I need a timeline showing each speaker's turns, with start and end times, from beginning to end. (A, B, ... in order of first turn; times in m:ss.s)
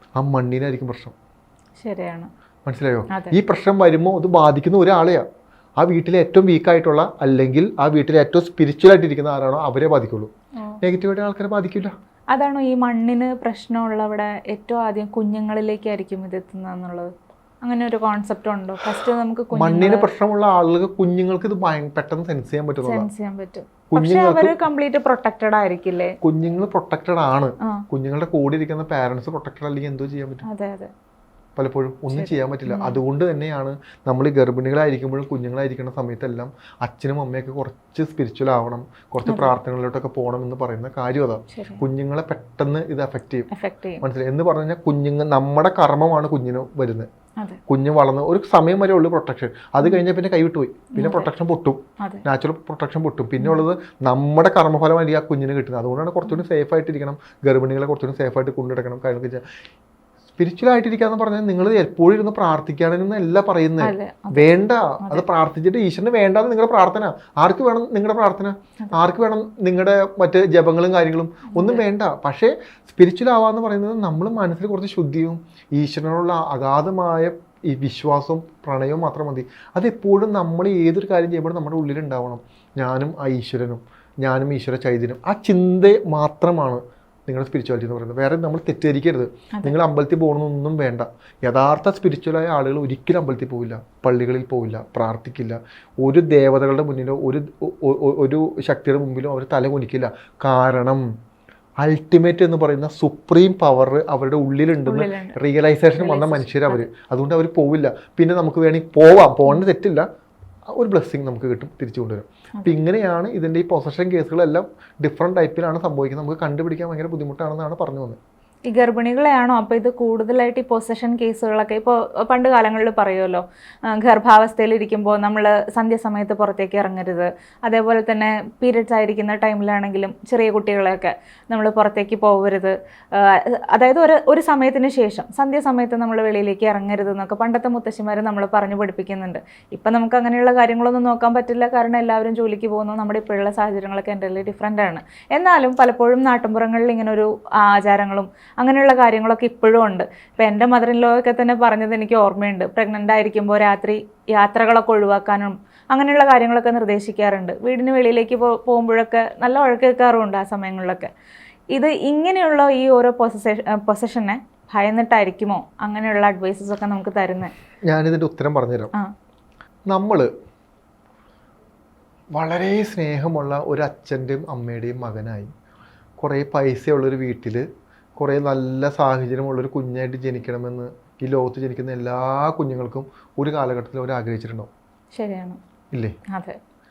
0:00.2-0:01.1 A
0:01.8-0:02.3 B
0:02.6-0:05.2 A
0:03.1-0:03.4 B
0:05.8-0:10.3 A
0:10.8-0:11.9 A
0:12.3-0:20.1 B
0:19.5-0:23.1 A
0:22.8-0:26.2 B
0:23.9-0:24.6 A
0:26.2-0:30.4 A
0:30.4-0:30.9 B
0:31.6-0:43.5 A
0:32.1-0:33.0 B
0:39.2-0:39.5 B
0:41.5-0:41.8 B
0:43.5-0:44.0 B
0:44.0-0:47.1 A
0:47.7-0:59.4 A
0:50.9-0:51.3 B
0:52.0-0:52.2 B
0:53.4-0:53.6 B
1:00.4-1:41.0 A
1:03.8-1:05.2 B
1:11.5-1:11.8 B
1:41.8-1:50.0 A
1:44.8-1:45.4 B
1:46.0-1:46.8 B
1:50.7-1:58.2 A
1:58.7-2:41.1 B
2:41.7-2:47.5 B
2:47.9-2:48.9 A
2:49.9-2:50.3 A
2:52.3-2:55.5 A
2:56.2-2:57.6 A
2:58.2-3:04.7 A
3:05.1-3:05.6 B
3:06.3-3:06.6 B